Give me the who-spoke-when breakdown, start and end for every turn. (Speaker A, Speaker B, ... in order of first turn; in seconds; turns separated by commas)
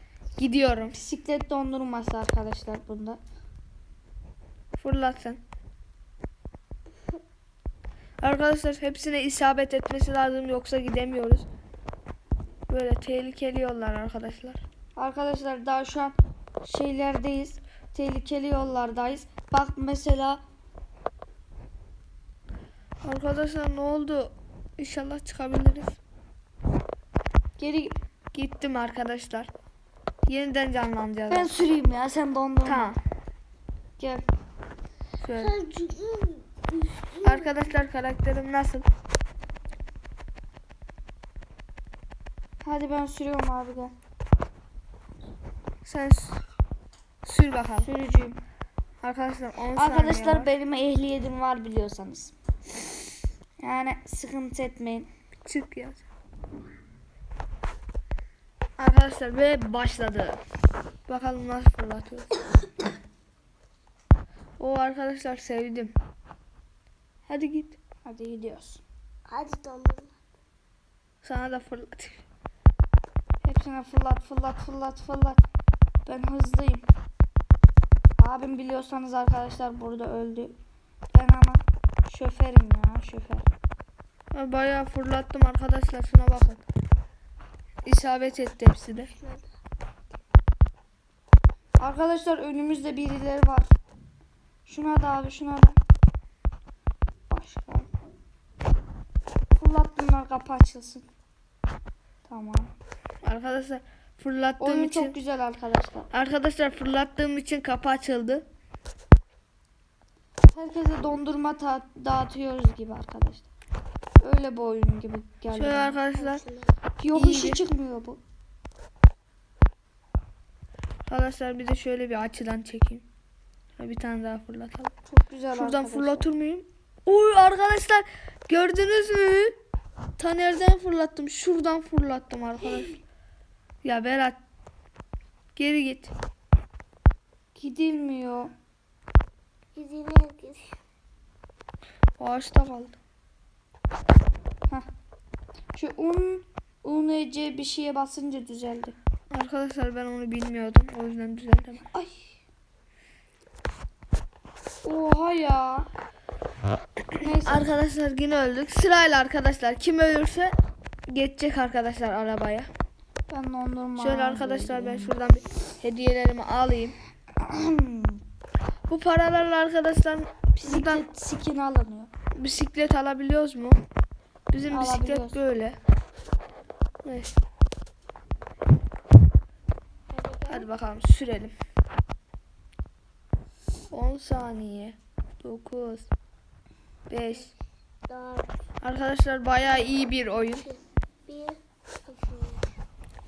Speaker A: 0.4-0.9, Speaker B: 0.9-3.2, Speaker A: 4.8-5.4, Speaker A: 8.2-11.5, Speaker A: 12.7-14.6, Speaker B: 15.0-20.4, Speaker A: 23.0-26.0, Speaker B: 27.6-28.0, Speaker A: 28.3-29.5, Speaker A: 30.3-31.5, Speaker B: 31.3-32.9, Speaker A: 32.6-33.0, Speaker B: 34.0-34.3, Speaker A: 35.2-35.6, Speaker C: 35.4-37.5, Speaker A: 37.2-38.9, Speaker B: 42.6-44.0, Speaker A: 45.8-46.4, Speaker A: 47.2-47.9, Speaker B: 47.8-48.4, Speaker A: 49.0-50.5, Speaker B: 49.8-52.3, Speaker B: 53.6-55.1, Speaker A: 55.5-56.0, Speaker A: 58.8-60.4, Speaker A: 61.1-62.4, Speaker A: 64.6-66.0, Speaker A: 67.3-67.8, Speaker B: 68.0-68.8, Speaker C: 69.3-70.1, Speaker A: 71.2-72.2, Speaker B: 73.4-75.4, Speaker B: 76.0-76.9, Speaker B: 78.2-80.5, Speaker B: 81.1-83.5, Speaker A: 84.3-86.6, Speaker A: 87.8-89.1, Speaker C: 89.1-89.5, Speaker B: 91.8-93.7, Speaker B: 94.7-95.8, Speaker B: 97.3-97.9, Speaker B: 99.6-101.1, Speaker B: 102.2-102.7, Speaker A: 103.2-105.2, Speaker B: 104.6-106.1, Speaker A: 106.1-108.5, Speaker B: 110.5-113.5, Speaker B: 114.2-116.0, Speaker A: 115.5-116.4, Speaker C: 116.1-116.7, Speaker B: 117.0-118.2, Speaker A: 117.1-117.6, Speaker A: 121.1-123.1, Speaker A: 123.8-124.9, Speaker B: 125.1-126.3, Speaker A: 125.5-129.6, Speaker A: 130.2-133.0, Speaker A: 133.8-134.4, Speaker A: 135.6-136.1, Speaker B: 137.6-138.5, Speaker C: 139.8-140.7, Speaker A: 142.2-143.0, Speaker B: 145.7-148.9, Speaker A: 149.3-151.9, Speaker B: 151.9-152.2, Speaker B: 154.8-155.9, Speaker B: 157.2-157.7, Speaker A: 157.2-160.6, Speaker A: 161.1-162.7, Speaker B: 163.3-165.1, Speaker A: 164.0-167.0, Speaker B: 167.4-168.2, Speaker A: 168.9-171.1, Speaker B: 170.6-172.1, Speaker A: 172.4-173.8, Speaker A: 174.5-175.8, Speaker B: 174.7-175.4, Speaker A: 177.0-177.3, Speaker C: 180.1-180.7, Speaker A: 180.5-181.6, Speaker A: 183.9-186.1, Speaker A: 187.1-187.5, Speaker C: 188.1-188.5, Speaker A: 188.8-190.7, Speaker C: 190.7-192.8